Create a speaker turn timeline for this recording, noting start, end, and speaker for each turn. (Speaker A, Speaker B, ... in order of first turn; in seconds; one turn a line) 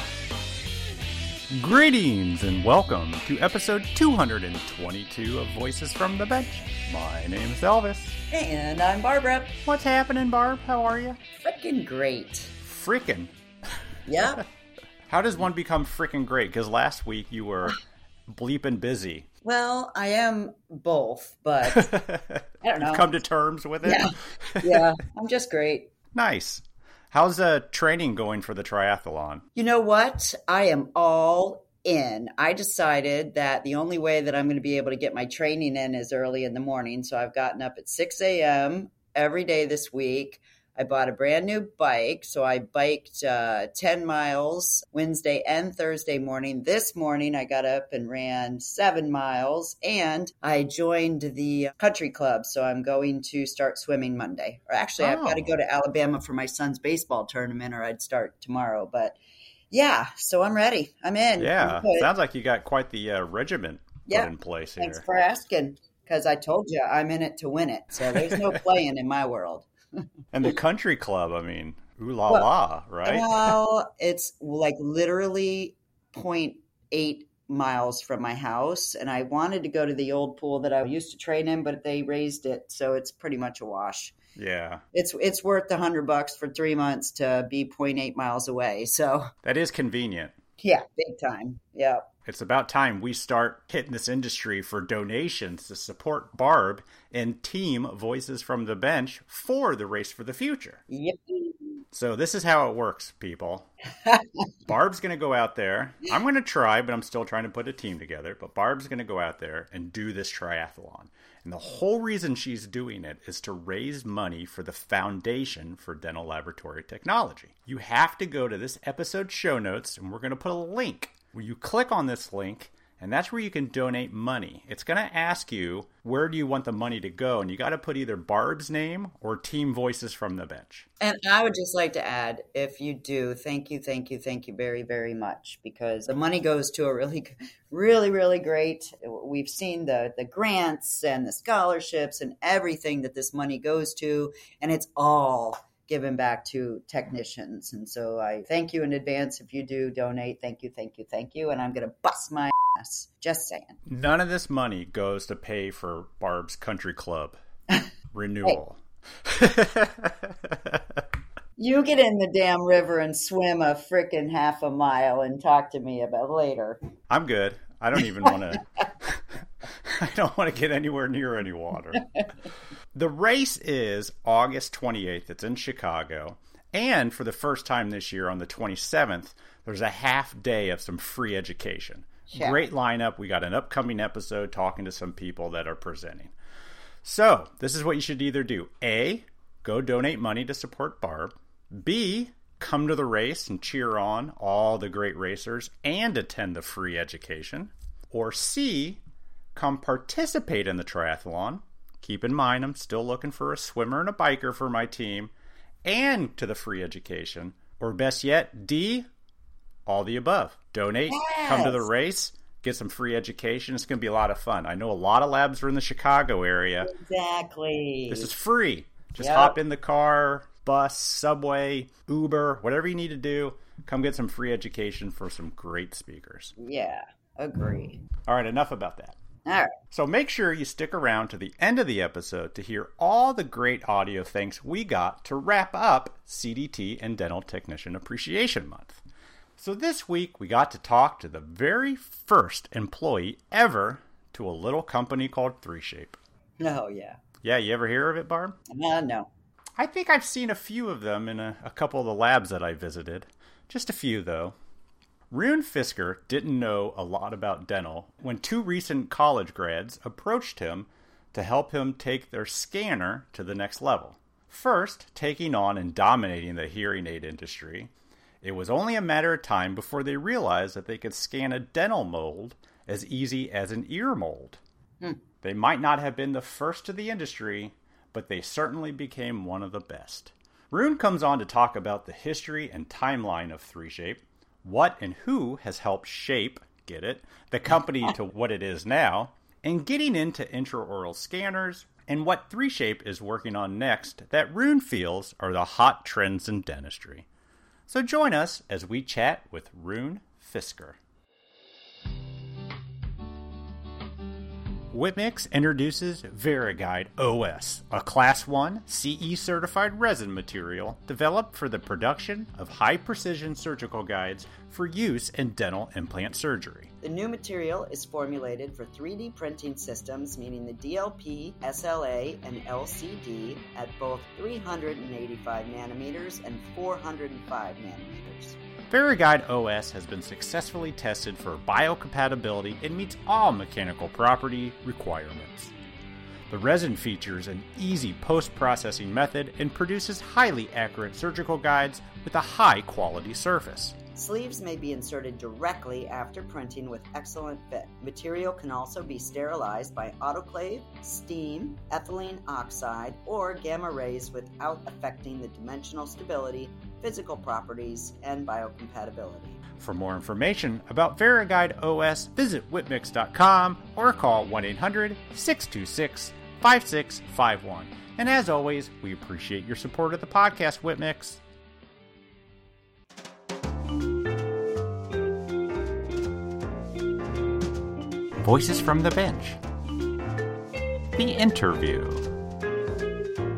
Speaker A: 1.5-8.2
Speaker B: 8.3-9.6
Speaker A: 9.7-11.2
Speaker B: 11.4-12.5
Speaker A: 12.6-13.3
Speaker B: 14.1-14.4
Speaker A: 15.1-19.3
Speaker B: 19.4-21.9
Speaker A: 21.6-24.8
Speaker B: 22.6-23.1
Speaker B: 23.8-25.9
Speaker A: 26.1-29.4
Speaker B: 29.6-59.2
Speaker A: 55.0-55.5
Speaker B: 59.7-62.1
Speaker A: 61.4-65.0
Speaker B: 64.1-69.7
Speaker A: 68.1-68.5
Speaker A: 70.3-73.5
Speaker B: 73.0-84.2
Speaker A: 84.3-84.8
Speaker B: 84.9-89.3
Speaker A: 89.4-90.3
Speaker B: 90.6-92.0
Speaker A: 92.2-100.8
Speaker B: 100.9-101.8
Speaker A: 101.9-103.7
Speaker B: 104.0-104.4
Speaker A: 104.7-130.8
Speaker B: 131.0-153.8
Speaker A: 153.9-157.4
Speaker A: 158.1-161.0
Speaker B: 161.6-166.8
Speaker A: 167.1-172.0
Speaker A: 172.9-186.3
Speaker B: 182.3-182.6
Speaker A: 187.0-199.0
Speaker A: 199.5-205.3
Speaker A: 205.8-209.1
Speaker A: 209.8-216.9
Speaker B: 211.1-211.8
Speaker B: 216.8-218.3
Speaker A: 218.1-226.5
Speaker B: 219.2-219.6
Speaker B: 226.6-228.0
Speaker A: 228.3-229.2
Speaker B: 229.4-229.7
Speaker A: 229.9-239.0
Speaker A: 239.6-246.2
Speaker B: 246.6-247.2
Speaker A: 247.4-248.6
Speaker B: 248.7-249.3
Speaker A: 249.8-254.6
Speaker A: 255.3-267.9
Speaker A: 268.4-274.6
Speaker A: 275.4-297.2
Speaker A: 297.9-301.0
Speaker A: 304.9-316.9
Speaker B: 317.0-328.6
Speaker A: 328.9-335.7
Speaker A: 336.5-343.9
Speaker B: 344.1-359.6
Speaker A: 359.8-371.4
Speaker A: 378.4-379.6
Speaker A: 381.1-382.3